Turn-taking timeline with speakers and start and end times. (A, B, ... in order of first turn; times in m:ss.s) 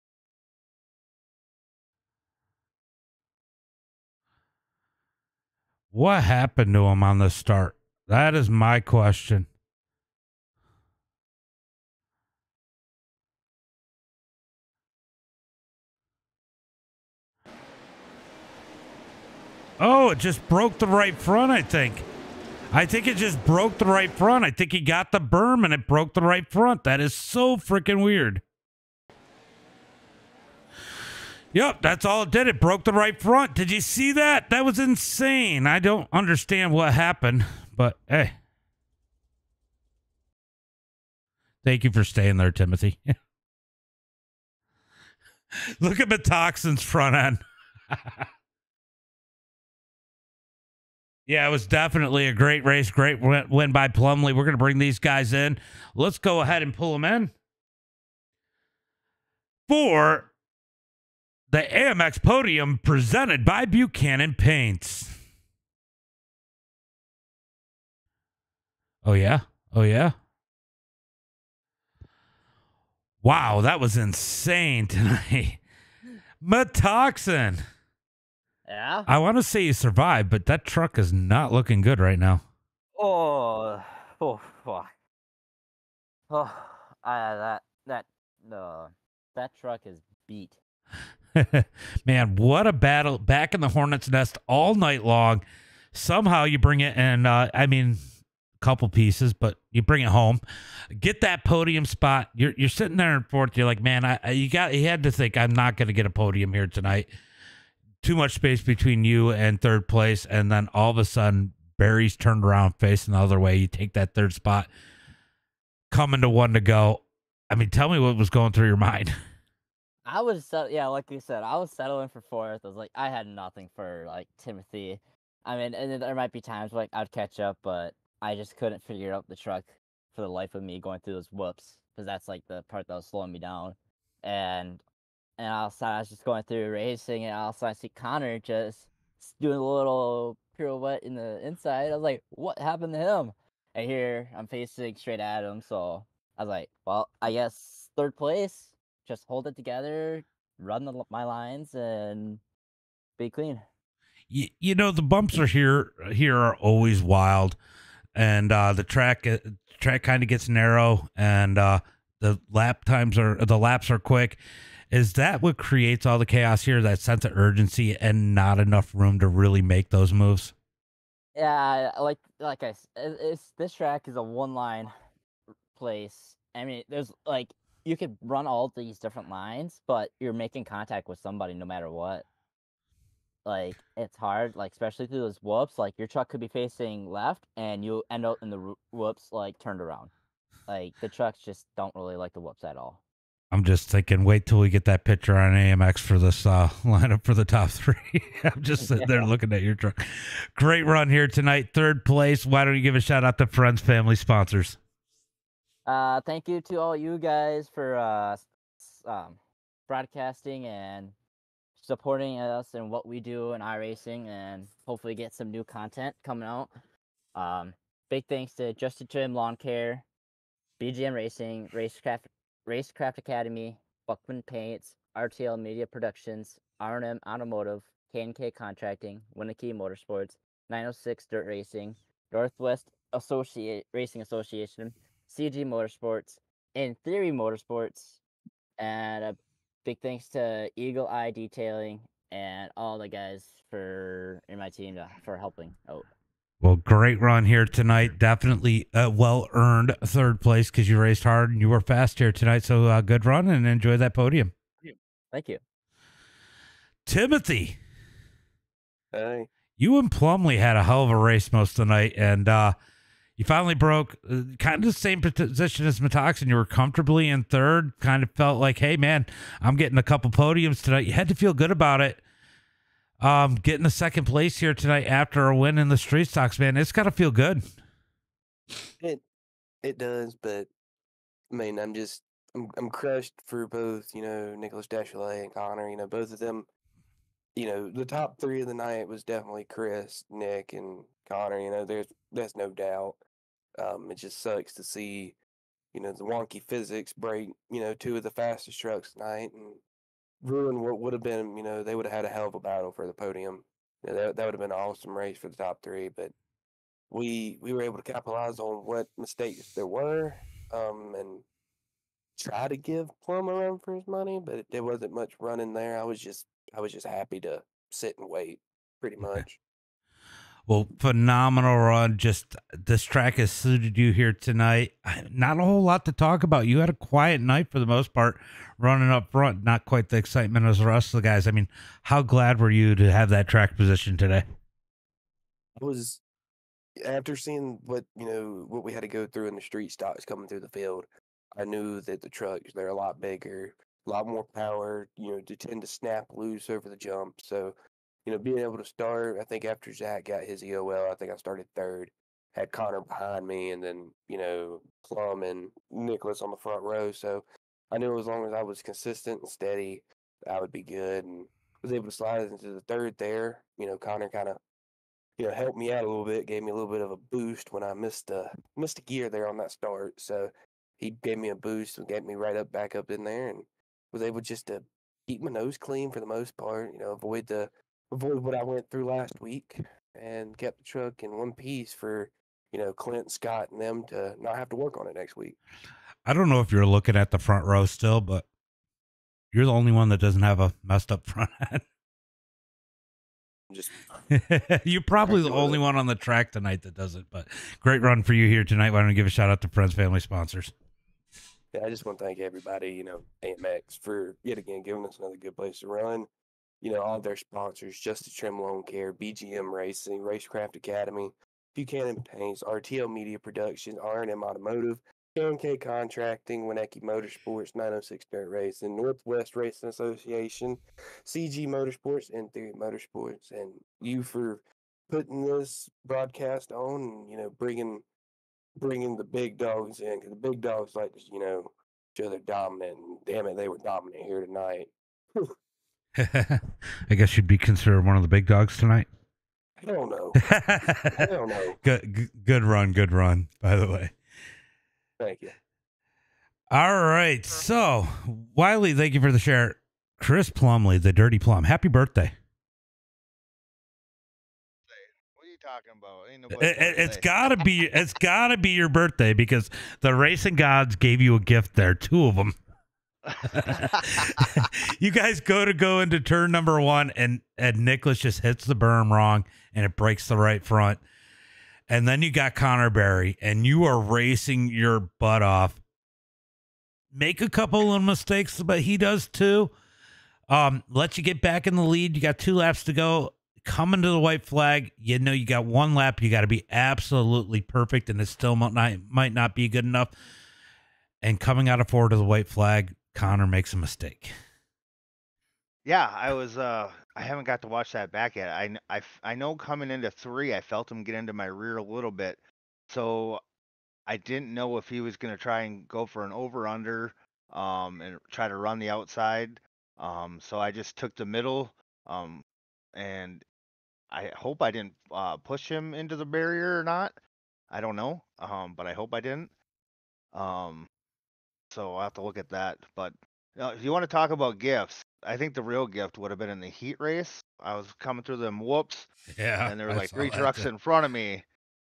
0:05.9-0:09.5 A
0:19.8-0:22.0 A
0:22.7-0:28.4 A
0:31.5-0:38.3 A
0:41.6-0:43.1 A
0:45.8-0:47.4 A
0:47.9-0:48.2 A
0:51.3-0:57.3 A
0:59.7-1:00.3 A
1:01.5-1:05.1 A
1:09.0-1:10.1 A
1:13.2-1:15.6 A
1:16.4-1:17.6 A
1:18.6-1:19.1 B
1:19.1-1:22.4 A
1:23.0-1:24.9 B
1:26.3-1:30.6 B
1:31.3-1:35.4 A
1:35.9-1:38.0 A
1:38.6-1:40.4 A
1:41.0-1:47.1 A
1:48.0-1:54.7 A
1:55.9-1:59.1 A
2:00.0-2:14.8 B
2:15.4-2:32.4 B
2:33.2-2:33.6 B
2:34.3-2:37.6 A
2:38.1-2:44.4 A
2:44.9-2:50.5 A
2:51.3-2:54.9 B
2:55.7-3:02.2 B
3:03.4-3:10.1 B
3:10.7-3:13.0 B
3:13.5-3:20.0 A
3:18.9-3:19.3 B
3:20.6-3:24.8 A
3:25.8-3:31.2 B
3:31.8-3:36.7 B
3:37.3-3:40.0 B
3:40.8-3:58.2 B
3:58.8-4:06.1 B
4:06.6-4:14.5 A
4:14.8-4:15.6 B
4:17.0-4:17.8 A
4:19.1-4:19.5 C
4:19.8-4:22.7 A
4:23.4-4:32.2 A
4:33.2-4:37.6 A
4:39.8-4:40.7 C
4:41.5-4:46.7 C
4:47.6-4:53.2 C
4:53.8-4:55.4 C
4:55.9-4:59.8 C
5:00.4-5:06.3 C
5:07.1-5:11.4 C
5:12.4-5:19.6 C
5:19.2-5:19.5 A
5:20.7-5:34.4 A
5:35.8-5:36.2 C
5:37.0-6:04.6 C
6:05.4-6:25.6 C
6:26.2-6:28.4 A
6:29.5-6:31.8 A
6:33.7-6:34.2 C
6:34.3-6:40.7 A
6:35.2-6:35.8 C
6:41.7-6:46.3 C
6:46.8-7:08.0 C
7:08.8-7:15.5 C
7:16.2-7:19.1 A
7:19.8-7:20.5 C
7:20.4-7:21.3 A
7:21.0-7:21.8 C
7:21.8-7:24.1 A
7:25.2-7:25.5 C
7:26.7-7:32.3 A
7:34.9-7:37.3 D
7:36.5-7:42.5 A
7:43.2-7:44.6 D
7:43.4-7:51.0 A
7:51.9-7:55.8 A
7:57.1-7:59.7 A
8:00.5-8:10.1 A
8:11.2-8:14.3 A
8:15.8-8:23.4 D
8:24.1-8:33.4 D
8:34.1-8:37.2 D
8:37.7-8:39.5 D
8:40.3-8:40.9 D
8:41.7-8:49.1 D
8:49.4-8:50.7 A
8:49.6-8:51.4 D